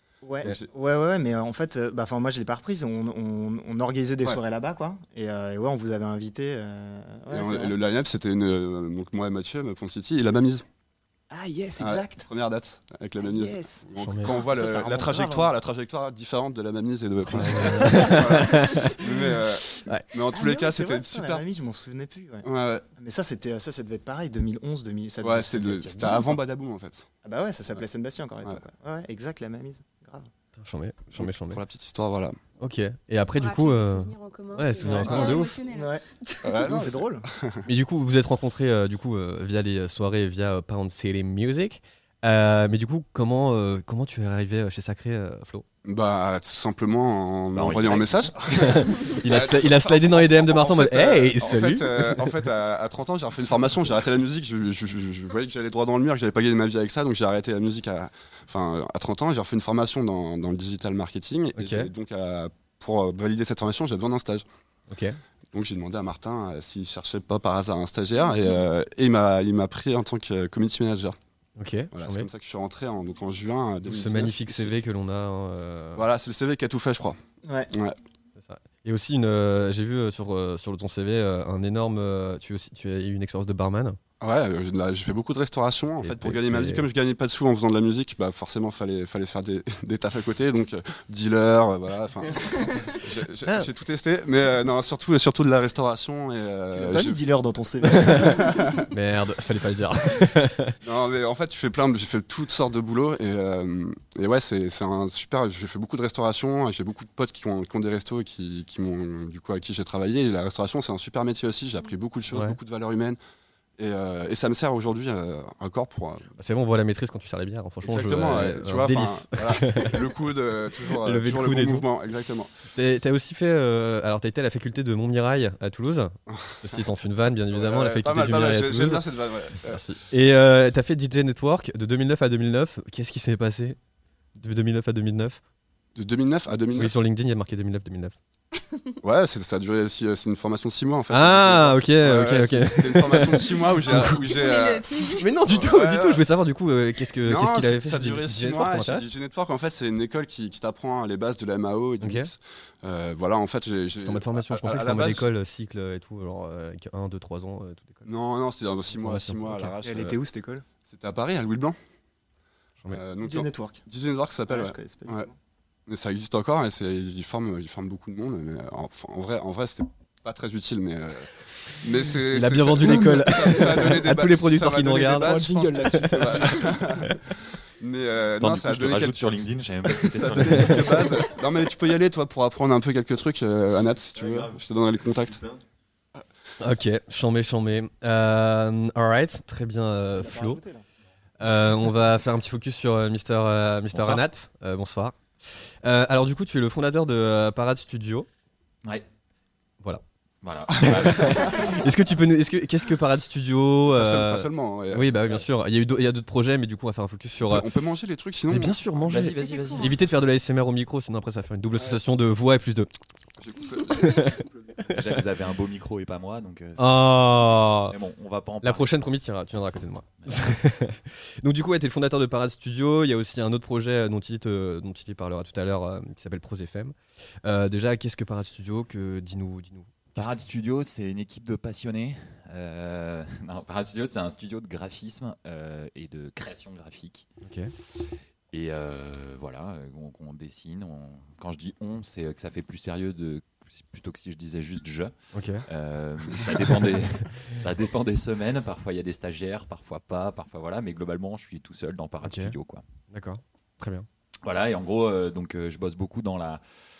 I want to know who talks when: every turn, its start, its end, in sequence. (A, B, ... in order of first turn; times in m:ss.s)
0:00.2-0:07.8 A
0:07.3-0:10.6 B
0:11.3-0:12.3 A
0:11.8-0:21.4 B
0:13.2-0:15.5 A
0:14.0-0:14.3 C
0:17.3-0:20.1 C
0:20.3-0:26.4 A
0:22.4-0:22.8 B
0:25.2-0:27.1 B
0:27.2-0:30.3 A
0:30.6-0:31.6 C
0:31.2-0:32.4 B
0:32.6-0:35.6 C
0:33.4-0:36.7 D
0:34.8-0:37.3 A
0:36.4-0:37.6 B
0:37.7-0:45.6 C
0:45.8-1:04.4 B
0:47.5-0:48.8 E
0:48.6-0:52.3 C
1:01.6-1:01.9 C
1:04.9-1:05.2 C
1:05.5-1:11.2 B
1:11.6-1:12.3 C
1:11.9-1:14.8 B
1:13.8-1:16.0 C
1:16.0-1:17.2 B
1:17.4-1:17.7 A
1:17.7-1:18.0 B
1:18.4-1:24.0 C
1:24.2-1:37.2 B
1:26.0-1:26.9 C
1:36.7-1:38.7 A
1:38.0-1:38.3 C
1:38.0-1:38.8 B
1:38.9-1:40.8 C
1:40.8-1:53.2 B
1:53.8-1:56.3 B
1:56.4-2:00.0 C
1:57.8-2:02.5 B
2:01.0-2:01.9 C
2:02.8-2:09.0 C
2:06.3-2:06.8 B
2:07.5-2:09.8 B
2:09.7-2:13.8 C
2:14.4-2:15.4 C
2:16.0-2:17.0 B
2:16.8-2:18.2 C
2:19.0-2:24.9 B
2:21.1-2:24.2 C
2:23.8-2:25.4 D
2:25.2-2:29.1 C
2:25.5-2:26.2 B
2:27.2-2:35.3 B
2:32.0-2:32.3 C
2:34.0-2:38.1 C
2:38.1-2:40.1 B
2:39.0-2:39.8 C
2:39.8-2:40.6 A
2:40.9-2:41.8 B
2:42.9-2:45.3 B
2:43.2-2:43.8 A
2:44.5-2:45.4 A
2:45.9-2:59.3 B
2:52.3-2:57.2 C
2:55.1-2:56.8 A
2:58.4-3:01.2 E
2:59.9-3:05.5 B
3:00.5-3:01.0 C
3:06.6-3:10.6 C
3:10.1-3:10.9 A
3:11.4-3:15.2 C
3:13.9-3:14.2 E
3:15.8-3:18.3 C
3:20.4-3:21.8 E
3:20.8-3:27.7 C
3:20.8-3:21.8 B
3:23.9-3:25.5 B
3:27.4-3:28.8 B
3:28.5-3:32.9 C
3:29.0-3:30.0 E
3:29.1-3:30.0 D
3:33.4-3:35.0 B
3:33.9-3:34.4 C
3:34.9-3:38.9 E
3:36.8-3:38.0 C
3:38.6-3:50.4 C
3:40.2-3:40.5 E
3:50.2-3:57.3 E
3:57.4-3:57.7 C
3:58.0-4:05.1 E
4:05.3-4:05.6 C
4:05.7-4:12.8 E
4:12.2-4:12.6 C
4:13.1-4:14.1 C
4:14.4-4:16.6 E